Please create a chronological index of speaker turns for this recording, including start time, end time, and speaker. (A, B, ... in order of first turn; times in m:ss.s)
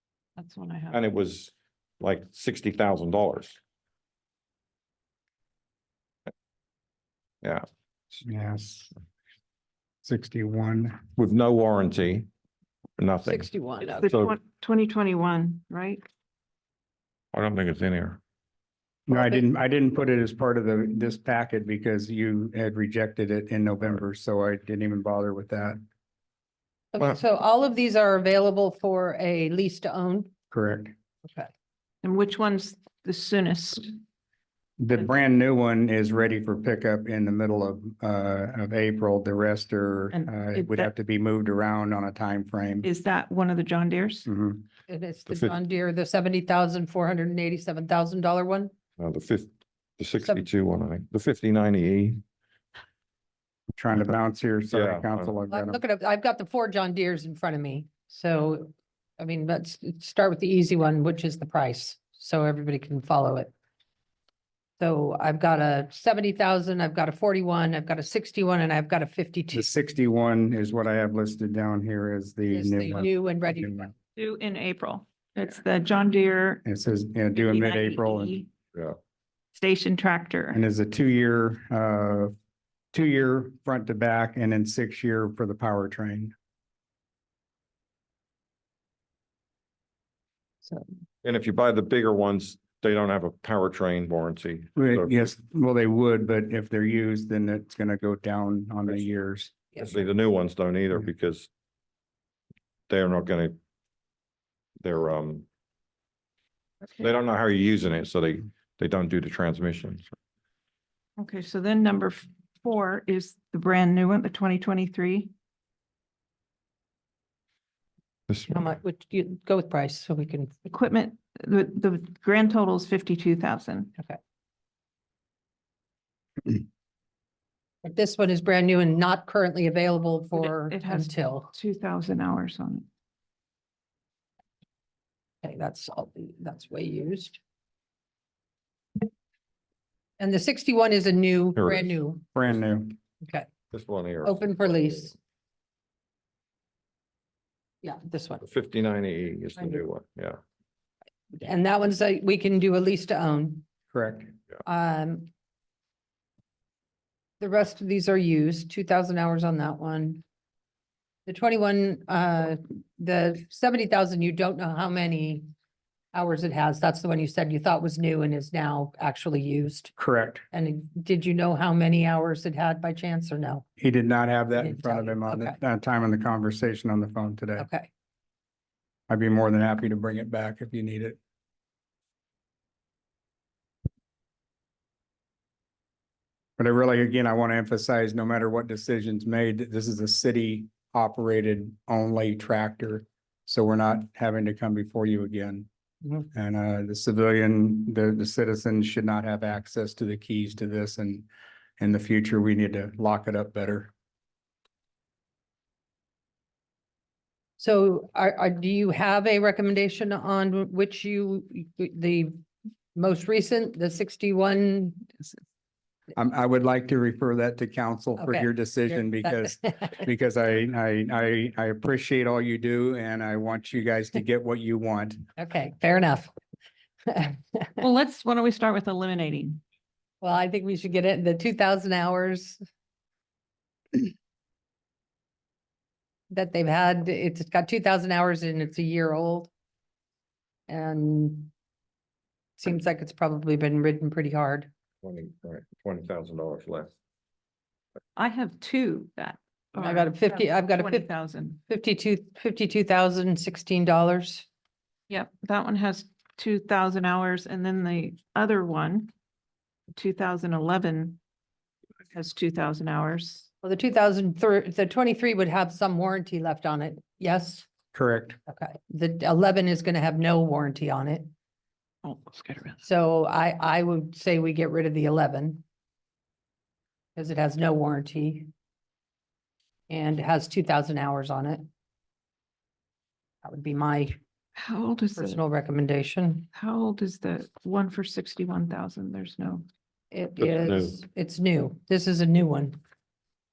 0:00.4-0:01.0 A
0:00.9-0:03.6 B
0:07.4-0:08.2 B
0:08.2-0:08.9 C
0:10.0-0:11.0 C
0:11.2-0:12.3 B
0:13.0-0:13.5 B
0:13.2-0:14.1 D
0:13.8-0:16.0 A
0:14.1-0:14.3 B
0:17.3-0:18.2 B
0:19.1-0:25.8 C
0:26.9-0:30.3 D
0:30.5-0:30.9 C
0:32.0-0:34.0 A
0:34.8-0:42.9 C
0:40.1-0:40.9 A
0:42.8-0:44.3 A
0:44.3-0:44.6 C
0:44.9-0:48.7 D
0:45.3-0:45.6 B
0:49.0-0:52.2 B
0:50.2-0:50.4 D
0:53.7-0:55.8 C
0:54.7-0:55.3 B
0:55.5-1:03.5 D
1:04.8-1:09.7 D
1:09.5-1:13.9 C
1:12.5-1:13.9 D
1:14.2-1:16.6 A
1:16.6-1:18.4 C
1:17.3-1:18.5 A
1:19.5-1:20.6 A
1:20.5-1:22.3 C
1:22.9-1:26.3 C
1:31.2-1:35.2 B
1:34.8-1:39.6 C
1:39.7-1:40.0 D
1:39.8-1:41.5 B
1:42.9-1:43.6 B
1:44.8-1:45.4 B
1:47.0-1:50.0 B
1:51.2-1:55.3 A
1:58.3-1:58.6 B
1:58.4-2:00.5 D
2:00.6-2:03.9 A
2:07.8-2:11.5 D
2:10.3-2:12.8 A
2:15.4-2:17.4 D
2:20.2-2:22.2 D
2:21.6-2:21.9 B
2:22.3-2:22.9 C
2:23.2-2:23.5 D
2:23.7-2:25.1 B
2:24.2-2:25.1 D
2:27.8-2:28.4 D
2:28.4-2:30.4 B
2:31.4-2:33.7 D
2:33.9-2:34.3 C
2:34.6-2:35.3 D
2:37.4-2:40.2 D
2:41.2-2:45.5 D
2:46.1-2:49.9 D
2:50.0-2:50.4 C
2:50.5-2:53.6 D
2:53.8-2:57.7 C
2:54.6-2:55.6 D
2:57.6-2:57.9 D
2:59.1-3:01.2 C
3:06.6-3:15.7 C
3:16.3-3:21.3 C
3:21.8-3:23.9 C
3:27.6-3:32.4 D
3:32.9-3:35.2 D
3:36.1-3:45.2 C
3:38.2-3:40.0 D
3:45.4-3:46.3 D
3:47.1-3:47.8 D
3:47.8-3:49.6 A
3:50.2-3:52.6 D
3:56.3-3:59.5 D
4:00.7-4:01.5 D
4:02.6-4:04.7 D
4:05.0-4:06.9 B
4:08.2-4:11.6 A
4:09.8-4:11.1 D
4:11.7-4:14.5 D
4:15.1-4:19.1 A
4:19.9-4:21.2 A
4:22.1-4:23.5 A
4:23.6-4:27.7 D
4:27.9-4:28.4 C
4:28.5-4:31.3 D
4:32.0-4:32.8 A
4:32.8-4:35.6 D
4:37.2-4:38.5 D
4:39.9-4:41.6 D
4:43.4-4:44.2 D
4:44.6-4:45.4 A
4:45.1-4:46.5 D
4:46.5-4:49.6 A
4:50.1-4:52.8 D
4:50.4-4:51.0 B